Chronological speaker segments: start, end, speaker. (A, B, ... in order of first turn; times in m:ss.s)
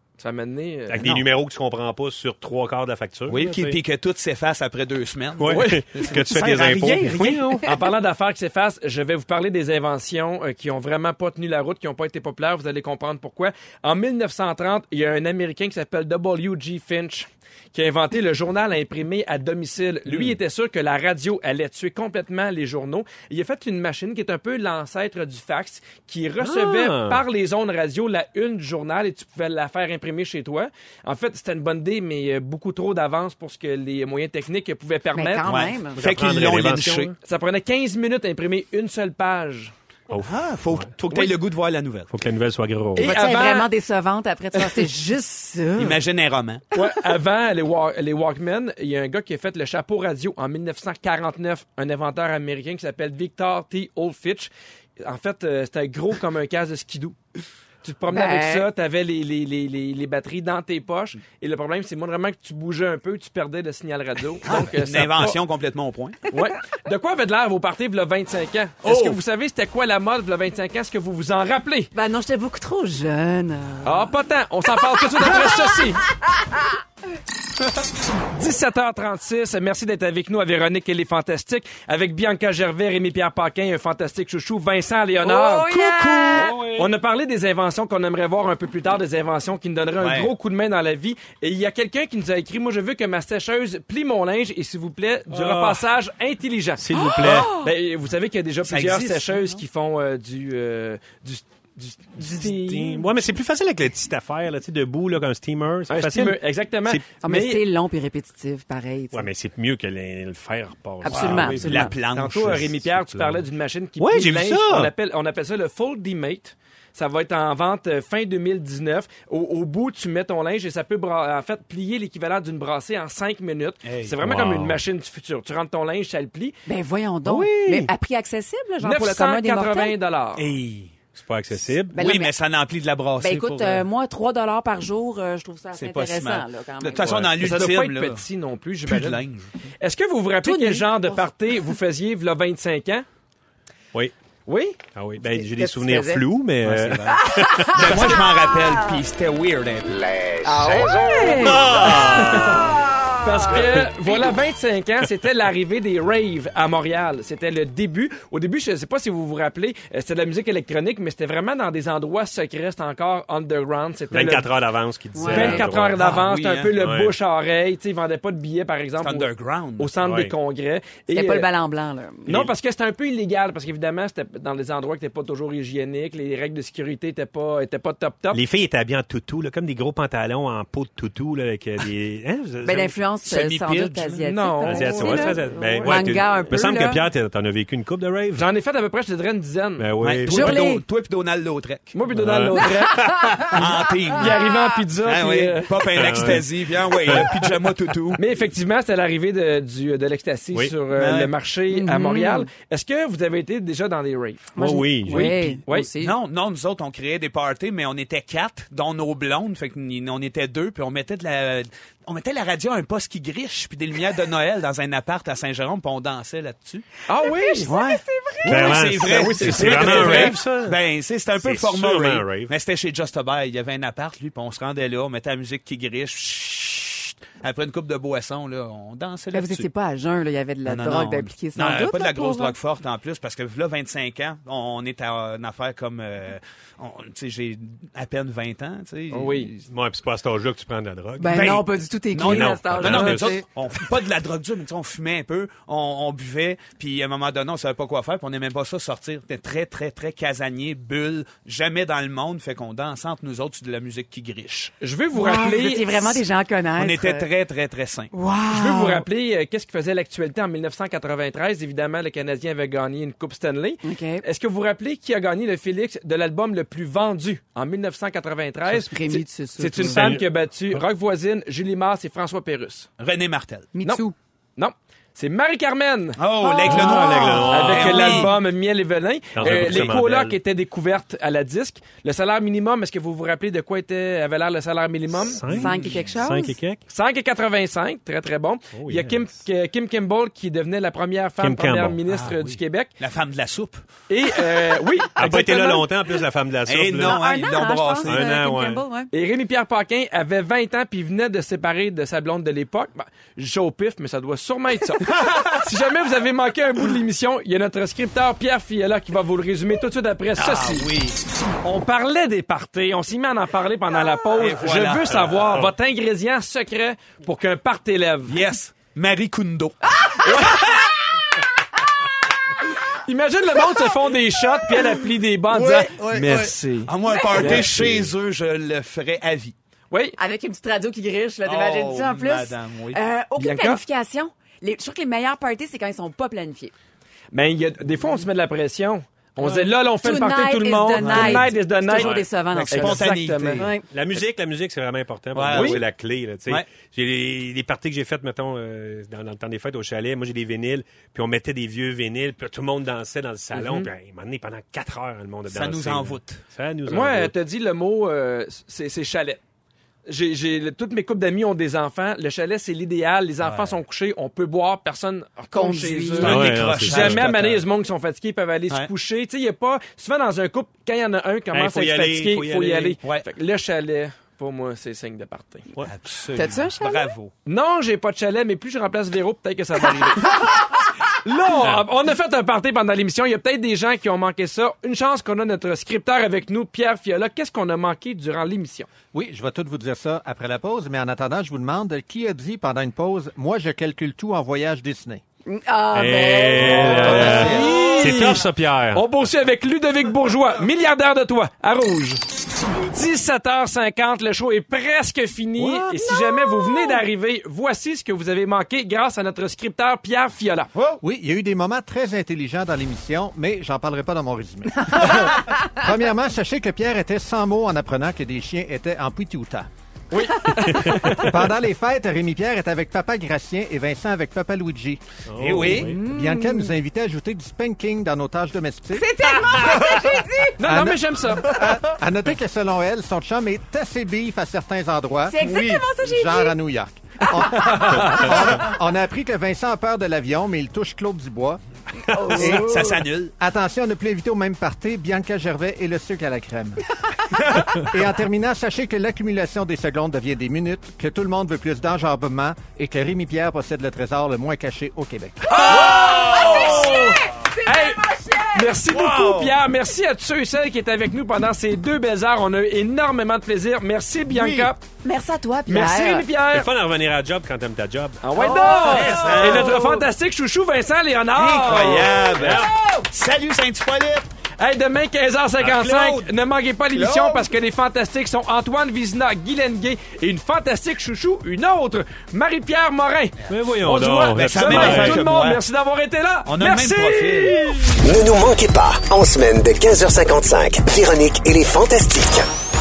0:00.2-0:01.2 A
0:00.9-0:03.8 B
0:03.3-0:07.6 C
0:05.4-0:07.7 B
0:05.5-0:05.8 A
0:07.6-0:35.4 A
0:26.4-0:27.2 B
0:35.1-0:36.0 D
0:35.4-0:37.1 C
0:36.0-0:37.1 B
0:37.2-0:39.7 A
0:40.1-0:40.9 B
0:40.2-0:42.1 C
0:42.1-0:43.1 B
0:43.0-0:46.0 D
0:43.0-0:43.7 A
0:45.8-0:46.6 C
0:46.7-0:57.2 A
0:57.8-1:05.4 A
0:58.1-0:58.7 D
1:04.4-1:06.2 C
1:06.3-1:11.9 A
1:08.8-1:09.2 C
1:11.9-1:14.1 D
1:13.8-1:16.0 A
1:14.9-1:15.7 D
1:18.3-1:36.8 A
1:25.2-1:26.6 D
1:25.8-1:26.6 C
1:30.0-1:30.3 C
1:35.3-1:35.8 B
1:36.8-1:37.5 B
1:36.9-1:37.7 D
1:37.5-1:43.0 A
1:38.6-1:39.3 C
1:42.2-1:47.0 B
1:45.9-1:47.6 A
1:47.2-1:49.3 D
1:49.1-1:53.4 B
1:51.0-1:51.9 D
1:51.1-1:52.8 C
1:52.1-2:06.5 A
1:54.0-1:54.9 B
2:03.8-2:04.1 C
2:04.2-2:04.8 B
2:06.6-2:10.0 D
2:07.3-2:07.9 B
2:08.8-2:10.5 A
2:10.4-2:11.0 C
2:11.1-2:11.9 B
2:11.9-2:13.8 C
2:11.9-2:12.3 D
2:13.2-2:17.1 D
2:15.7-2:18.2 C
2:17.0-2:17.4 B
2:17.4-2:19.2 A
2:18.8-2:19.5 C
2:19.8-2:23.0 A
2:20.4-2:21.2 D
2:24.5-2:24.8 A
2:24.9-2:28.2 B
2:25.2-2:26.2 D
2:26.6-2:30.8 C
2:27.2-2:29.0 D
2:30.4-2:32.1 D
2:31.2-2:32.8 B
2:31.9-2:32.6 A
2:33.0-2:33.2 D
2:33.2-2:44.5 A
2:44.1-2:46.2 B
2:45.1-2:45.7 D
2:45.3-2:51.5 A
2:46.0-2:46.7 C
2:46.7-2:47.1 B
2:49.0-2:49.9 C
2:50.0-2:50.3 B
2:51.1-2:52.3 D
2:52.3-2:58.4 A
2:58.3-3:02.9 B
3:02.6-3:07.0 D
3:03.2-3:04.2 C
3:04.2-3:06.2 A
3:04.6-3:08.4 B
3:08.4-3:09.9 A
3:09.8-3:10.6 B
3:10.0-3:12.0 C
3:10.3-3:10.8 D
3:11.9-3:16.4 A
3:12.1-3:13.2 B
3:12.8-3:13.5 D
3:13.5-3:14.4 C
3:15.0-3:18.2 C
3:15.9-3:17.3 B
3:18.2-3:24.6 A
3:20.9-3:21.3 C
3:21.7-3:22.5 D
3:24.6-3:25.6 B
3:24.6-3:26.2 D
3:25.1-3:25.9 A
3:26.0-3:36.8 C
3:37.1-3:37.7 A
3:37.2-3:39.0 D
3:37.6-3:49.7 C
3:38.4-3:40.8 B
3:39.0-3:40.4 A
3:41.4-3:42.5 B
3:49.3-3:52.6 D
3:50.6-3:59.6 C
3:59.1-3:59.5 A
3:59.7-4:01.7 B
4:01.2-4:03.5 D
4:01.3-4:14.7 C
4:02.2-4:03.3 B
4:14.8-4:16.2 A
4:15.1-4:17.3 D
4:16.8-4:18.1 C
4:18.1-4:19.0 D
4:18.5-4:32.9 A
4:23.8-4:24.2 D
4:28.7-4:30.1 D
4:29.9-4:30.8 B
4:33.0-4:33.7 C
4:33.7-4:34.1 D
4:34.6-4:36.2 A
4:36.2-4:38.3 C
4:36.4-4:37.5 D
4:36.6-4:38.3 B
4:37.4-4:45.4 A
4:39.3-4:40.4 B
4:39.4-4:39.9 C
4:45.1-4:46.8 B
4:45.4-4:46.0 C
4:45.5-4:46.6 D
4:46.9-4:52.9 A
4:48.7-4:49.3 B
4:51.4-4:52.0 B
4:52.1-4:53.8 C
4:54.1-4:55.9 A
4:55.2-4:57.2 B
4:56.7-4:58.2 C
4:57.0-4:59.1 D
4:58.0-4:58.8 B
4:59.1-5:10.9 A
5:05.1-5:05.6 C
5:10.3-5:11.2 C
5:11.6-5:18.4 A
5:14.3-5:15.3 C
5:18.2-5:19.9 C
5:20.0-5:20.7 D
5:20.2-5:21.0 A
5:23.0-5:27.7 A
5:25.5-5:29.5 C
5:27.1-5:27.3 D
5:27.4-5:28.1 B
5:29.9-5:30.2 A
5:30.2-5:36.7 D
5:31.4-5:33.0 C
5:33.4-5:33.8 A
5:37.3-5:43.6 A
5:39.4-5:43.8 D
5:41.0-5:43.7 C
5:43.9-5:57.3 B
5:45.3-5:45.8 C
5:45.5-5:45.8 A
5:53.5-5:53.9 A
5:55.5-5:56.4 C
5:56.9-5:59.4 A
6:00.1-6:15.6 A
6:05.5-6:06.4 D
6:06.2-6:07.6 C
6:06.2-6:07.6 B
6:11.5-6:13.0 B
6:15.8-6:17.3 C
6:16.3-6:17.1 D
6:17.4-6:28.9 A
6:29.1-6:35.2 E
6:35.4-6:37.6 D
6:35.9-6:39.0 B
6:36.6-6:37.9 C
6:36.9-6:42.2 A
6:42.7-6:50.7 A
6:46.0-6:47.0 D
6:50.9-6:59.7 E
7:00.1-7:01.4 A
7:00.6-7:01.1 B
7:01.1-7:05.0 E
7:05.3-7:06.0 B
7:05.4-7:05.9 C
7:05.6-7:09.1 E
7:05.7-7:06.7 D
7:08.9-7:10.6 D
7:10.6-7:11.6 A
7:10.6-7:21.6 E
7:15.2-7:16.6 D
7:15.4-7:15.9 C
7:22.1-7:23.0 D
7:22.3-7:22.8 E
7:22.4-7:23.3 C
7:23.4-7:26.8 E
7:27.6-7:35.6 E
7:35.5-7:38.7 D
7:35.5-7:44.8 A
7:35.6-7:37.2 C
7:38.9-7:39.6 C
7:44.3-7:44.7 C
7:45.0-7:46.3 D
7:45.7-7:46.7 A
7:46.5-7:48.2 B
7:48.2-7:52.3 A
7:48.4-7:50.0 D
7:48.8-7:49.6 B
7:48.8-7:49.8 C
7:51.3-7:54.3 C
7:52.4-7:52.7 B
7:54.6-8:08.0 A
7:55.6-7:56.3 B
7:56.9-7:57.5 C
8:03.5-8:05.2 B
8:04.0-8:05.6 C
8:06.4-8:07.6 C
8:08.0-8:12.4 F